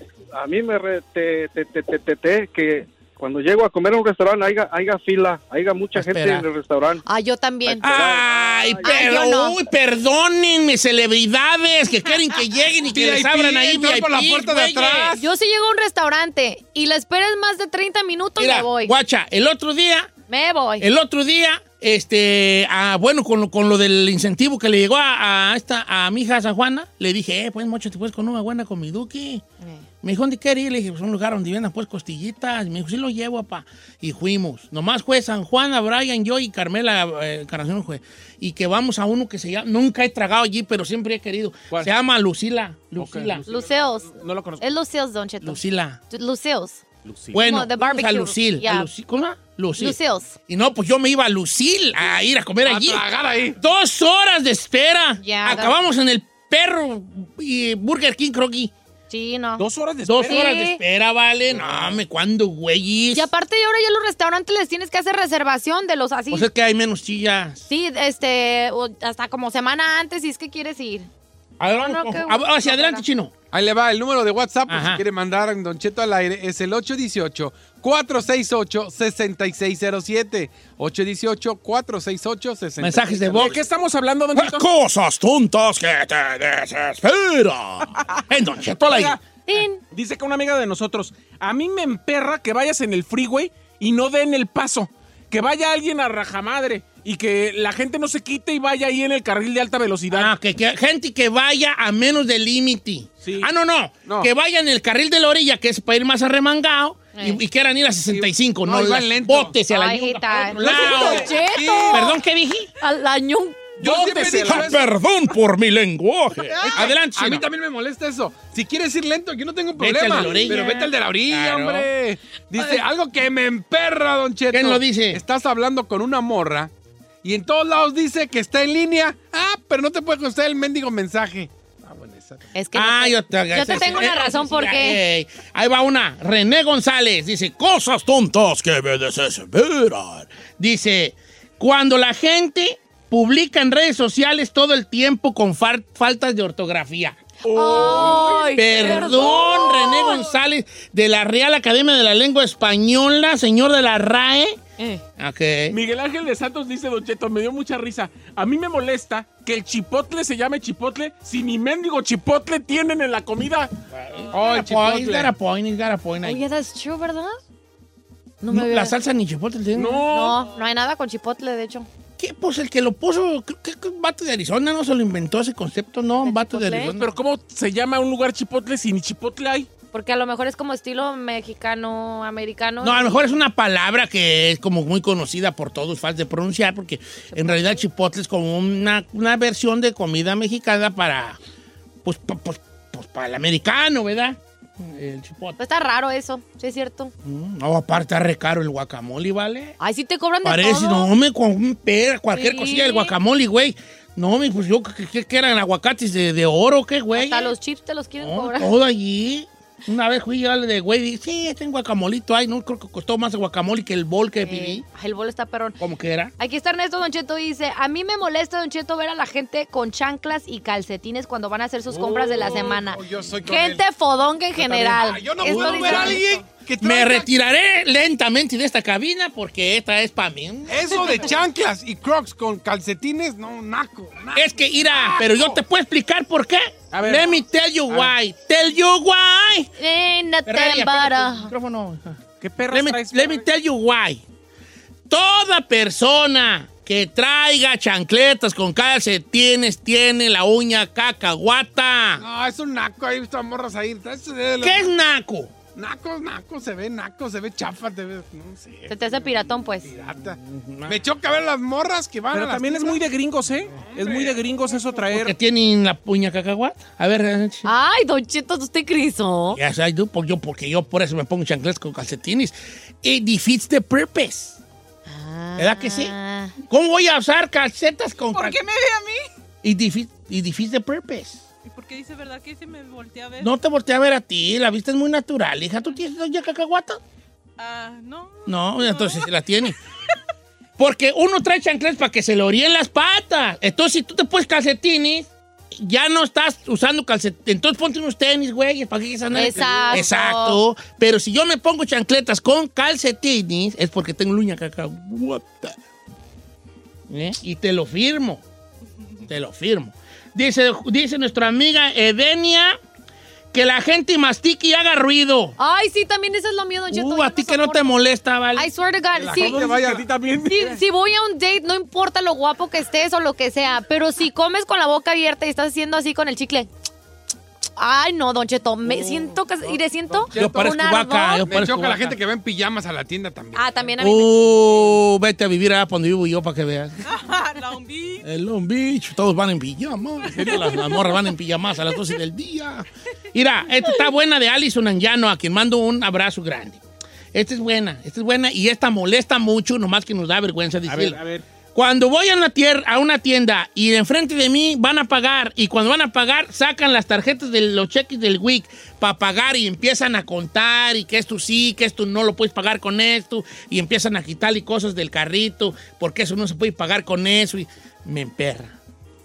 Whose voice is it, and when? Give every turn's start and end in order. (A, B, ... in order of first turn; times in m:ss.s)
0:00.3-0:07.0 A
0:05.9-0:06.4 B
0:07.0-0:08.0 C
0:07.7-0:08.5 A
0:07.8-0:15.2 B
0:08.3-0:08.7 D
0:08.8-0:09.6 C
0:12.9-0:15.2 D
0:15.1-0:18.9 C
0:18.4-0:20.1 B
0:20.3-0:20.9 C
0:20.8-0:29.4 B
0:30.0-0:43.4 B
0:43.0-0:44.6 E
0:43.5-0:45.6 C
0:45.4-0:46.0 B
0:46.1-0:46.8 C
0:47.0-0:47.4 E
0:47.3-0:50.0 B
0:47.3-0:48.9 C
0:49.8-0:50.4 C
0:50.5-0:53.0 B
0:52.6-0:53.6 D
0:53.6-0:58.7 B
0:55.2-0:55.8 C
0:59.1-0:59.6 C
0:59.6-1:00.5 E
1:00.0-1:03.3 B
1:00.2-1:00.8 C
1:03.1-1:06.4 C
1:06.3-1:07.6 B
1:07.7-1:11.1 C
1:11.6-1:13.3 B
1:11.7-1:13.0 C
1:13.5-1:23.5 D
1:14.7-1:15.0 B
1:22.8-1:23.6 B
1:23.4-1:24.6 E
1:24.3-1:29.2 B
1:28.8-1:40.3 E
1:29.5-1:29.8 C
1:40.1-1:51.3 B
1:43.2-1:43.5 E
1:48.1-1:49.6 D
1:49.7-1:52.1 C
1:50.5-1:52.1 D
1:50.9-1:51.2 E
1:51.9-1:52.7 B
1:52.8-1:53.7 C
1:53.8-1:54.8 D
1:53.8-1:54.8 E
1:54.4-1:57.5 B
1:56.5-2:06.7 D
1:59.8-2:01.9 B
2:00.2-2:00.9 C
2:04.5-2:05.2 B
2:07.2-2:12.5 D
2:12.5-2:15.0 C
2:12.7-2:27.2 B
2:27.4-2:29.2 E
2:27.5-2:30.3 C
2:28.0-2:28.2 D
2:28.5-2:34.6 B
2:35.2-2:35.8 B
2:35.7-2:43.7 E
2:43.9-2:46.4 B
2:44.3-2:45.3 D
2:46.2-2:47.4 C
2:48.4-2:48.9 C
2:48.5-2:50.0 B
2:49.7-2:50.4 E
2:50.0-2:51.9 C
2:52.2-2:57.2 B
2:56.2-2:56.9 C
2:56.8-2:59.7 E
2:59.9-3:03.3 C
3:02.8-3:11.4 B
3:07.3-3:07.8 C
3:12.0-3:15.6 B
3:15.6-3:17.1 C
3:17.2-3:19.8 B
3:19.8-3:21.1 C
3:20.4-3:27.5 B
3:22.3-3:23.1 C
3:27.1-3:28.7 C
3:28.2-3:34.8 B
3:34.4-3:35.8 C
3:35.8-3:36.3 B
3:36.4-3:46.4 C
3:41.9-3:43.8 D
3:44.6-3:47.3 D
3:45.4-3:46.2 B
3:45.9-3:46.2 E
3:46.8-3:51.3 B
3:50.7-3:55.6 D
3:54.3-3:59.7 B
3:56.9-3:57.3 E
3:59.8-4:01.5 C
4:00.4-4:04.2 B
4:02.4-4:03.4 E
4:05.1-4:12.2 B
4:12.2-4:14.9 D
4:14.6-4:15.5 B
4:15.7-4:23.0 D
4:18.9-4:20.0 C
4:20.4-4:21.0 B
4:22.3-4:25.3 E
4:23.8-4:24.6 D
4:25.1-4:27.7 B
4:27.6-4:29.6 C
4:29.5-4:34.6 B
4:35.0-4:36.5 C
4:35.6-4:36.1 B
4:36.7-4:38.6 B
4:38.3-4:39.2 F
4:39.6-4:41.4 B
4:41.6-4:43.5 F
4:43.4-4:47.0 B
4:47.6-4:49.3 F
4:48.5-4:49.8 B
4:50.8-5:05.8 B
4:59.3-5:00.6 C
4:59.5-5:00.1 D
5:07.1-5:08.4 B
5:09.2-5:12.8 B
5:13.5-5:15.6 B
5:15.6-5:17.9 C
5:16.9-5:18.7 B
5:18.5-5:19.7 C
5:19.1-5:20.0 D
5:19.3-5:20.8 E
5:20.5-5:26.7 C
5:27.8-5:31.4 C
5:28.8-5:30.8 D
5:30.3-5:32.2 B
5:31.4-5:33.9 D
5:33.6-5:34.8 C
5:34.0-5:37.0 B
5:37.0-5:38.2 F
5:38.2-5:46.8 B
5:40.3-5:40.7 E
5:47.3-5:51.2 B
5:50.8-5:51.4 E
5:51.7-6:08.7 B